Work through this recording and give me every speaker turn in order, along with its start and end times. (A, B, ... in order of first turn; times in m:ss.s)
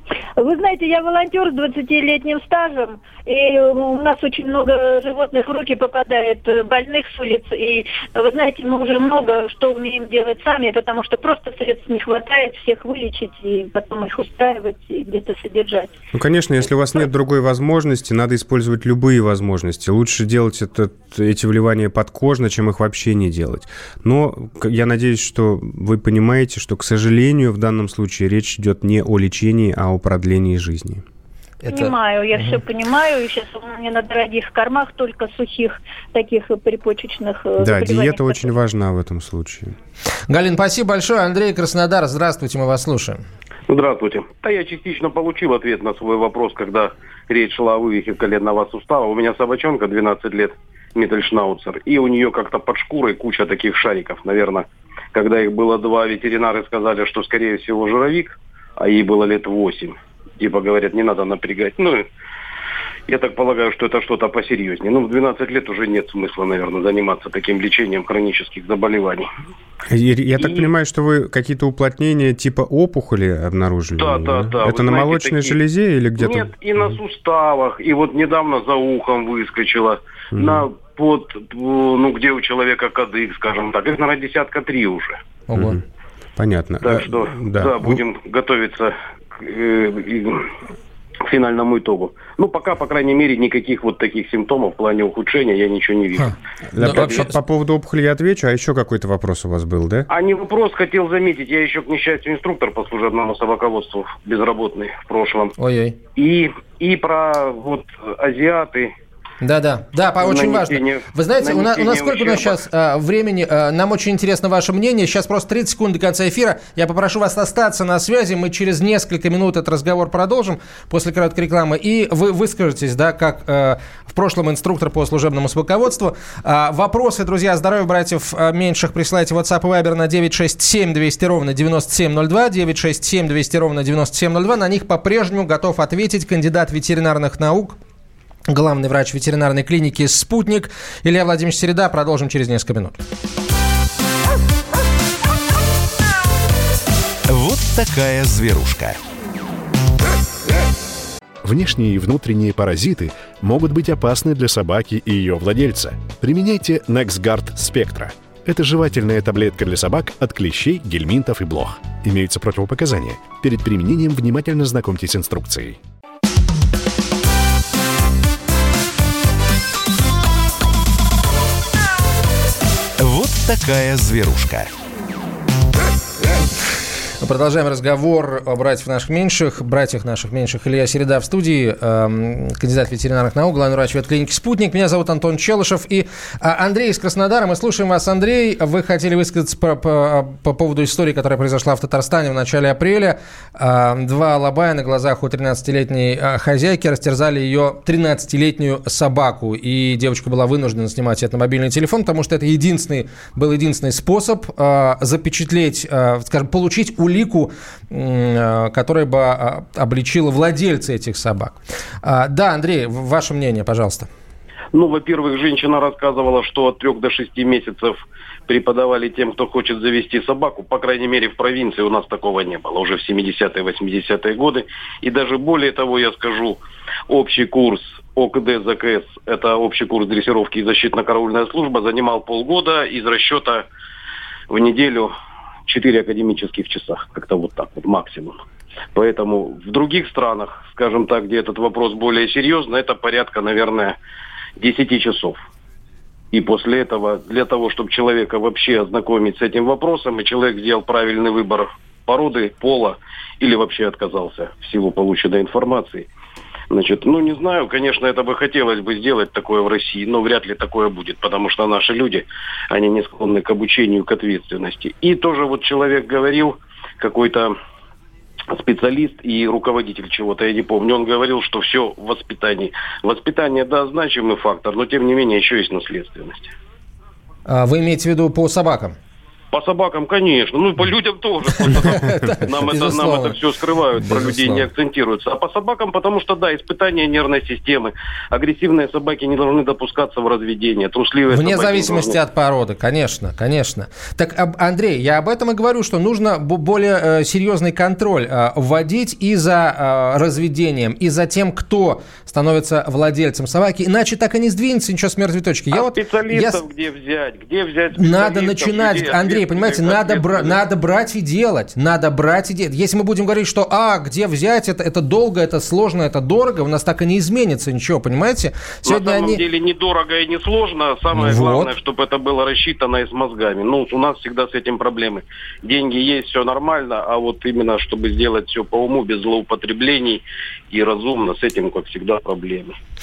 0:00.4-0:15.9 A
0:16.1-0:31.0 B
0:31.6-0:32.6 C
0:31.7-0:38.5 A
0:37.6-0:39.8 B
0:40.3-0:43.2 C
0:43.7-1:02.0 D
1:03.1-1:09.3 D
1:09.9-1:16.5 B
1:10.4-1:10.7 D
1:14.0-1:15.6 D
1:16.2-1:25.2 D
1:20.4-1:20.7 B
1:25.5-1:25.8 C
1:25.6-1:25.8 B
1:26.4-1:28.0 B
1:26.8-1:30.5 D
1:31.3-1:36.4 D
1:36.2-1:37.4 C
1:36.7-1:40.1 B
1:36.9-1:37.2 D
1:40.1-1:45.6 D
1:45.6-1:46.0 C
1:46.2-1:48.9 D
1:49.4-2:17.8 C
1:50.2-1:52.6 D
2:18.5-2:23.0 C
2:27.3-2:29.0 E
2:31.4-2:45.8 F
2:53.0-2:54.7 E
2:57.2-3:34.1 C
3:34.7-3:53.6 D
3:54.5-3:55.1 D
3:55.7-3:58.4 D
3:58.9-4:04.0 D
4:04.6-4:05.4 D
4:06.3-4:16.1 D
4:16.7-4:27.6 D
4:28.5-4:36.5 D
4:37.5-4:39.0 C
4:39.5-4:52.2 D
4:41.8-4:43.4 C
4:43.9-4:44.7 C
4:51.3-5:06.6 C
5:05.7-5:10.6 D
5:07.9-5:19.4 C
5:18.9-5:32.8 D
5:21.1-5:21.8 C